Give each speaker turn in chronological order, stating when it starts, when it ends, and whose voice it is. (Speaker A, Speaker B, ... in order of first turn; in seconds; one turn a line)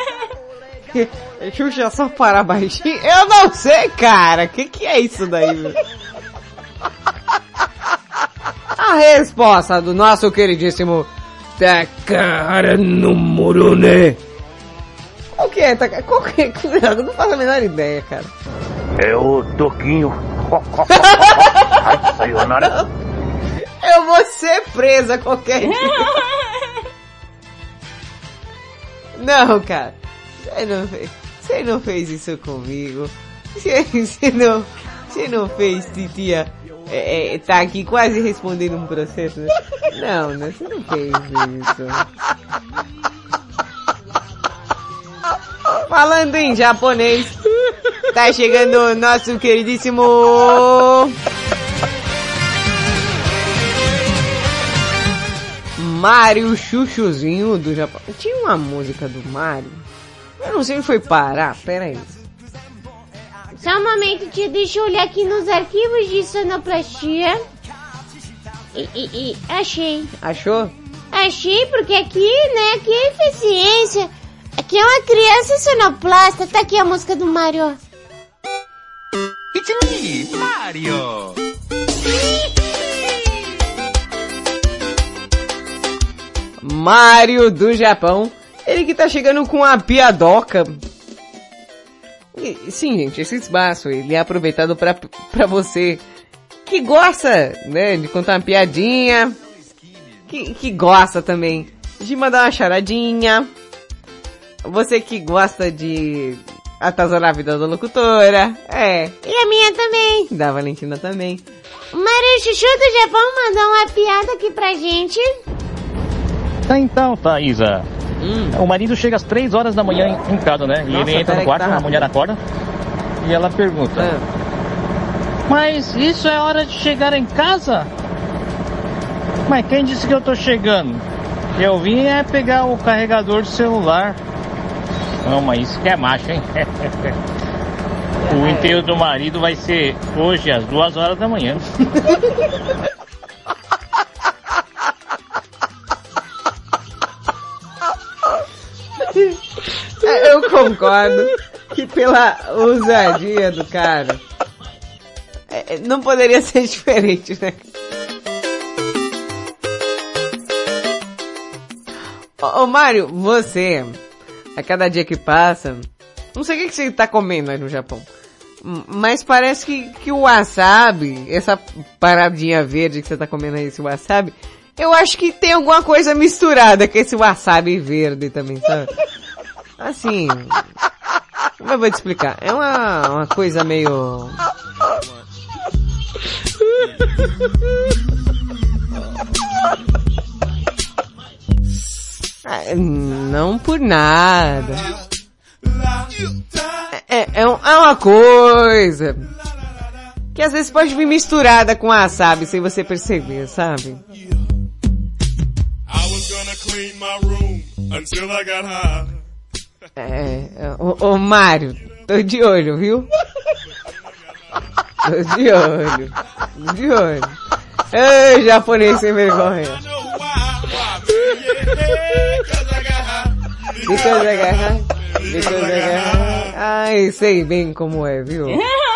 Speaker A: 0.9-5.8
Speaker A: 8.8-14.1
Speaker A: 15.4-18.3
Speaker B: 19.0-22.8
Speaker A: 20.9-21.8
Speaker A: 22.6-22.9
Speaker A: 23.8-26.2
Speaker A: 29.2-42.0
Speaker A: 45.9-47.4
Speaker A: 48.1-51.1
Speaker A: 55.8-59.8
Speaker A: 60.4-62.2
Speaker C: 63.6-67.4
Speaker C: 68.8-70.1
Speaker A: 70.2-70.7
Speaker C: 71.1-77.8
Speaker A: 86.6-90.8
Speaker A: 92.3-96.0
Speaker A: 96.7-99.4
Speaker A: 100.3-103.5
Speaker A: 104.7-109.2
Speaker C: 109.2-110.2
Speaker A: 110.3-111.4
Speaker C: 111.9-115.3
Speaker D: 116.7-117.8
Speaker A: 118.2-118.6
Speaker D: 118.5-122.4
Speaker A: 120.9-122.1
Speaker D: 123.2-124.1
Speaker A: 124.0-124.3
Speaker D: 125.5-127.9
Speaker D: 129.5-131.0
Speaker D: 131.6-134.2
Speaker D: 135.2-137.1
Speaker A: 138.2-138.9
Speaker D: 138.3-141.6
Speaker A: 141.9-142.2
Speaker A: 150.0-154.2
Speaker A: 155.5-157.6
Speaker A: 162.4-164.0
Speaker A: 164.6-168.1
Speaker A: 168.6-178.9
Speaker A: 179.8-180.6
Speaker A: 181.6-184.4
Speaker A: 192.4-194.9
Speaker A: 196.9-199.2
Speaker A: 200.3-204.0
Speaker A: 210.0-213.1
Speaker A: 215.0-217.4
Speaker A: 217.9-219.8
Speaker A: 223.8-228.6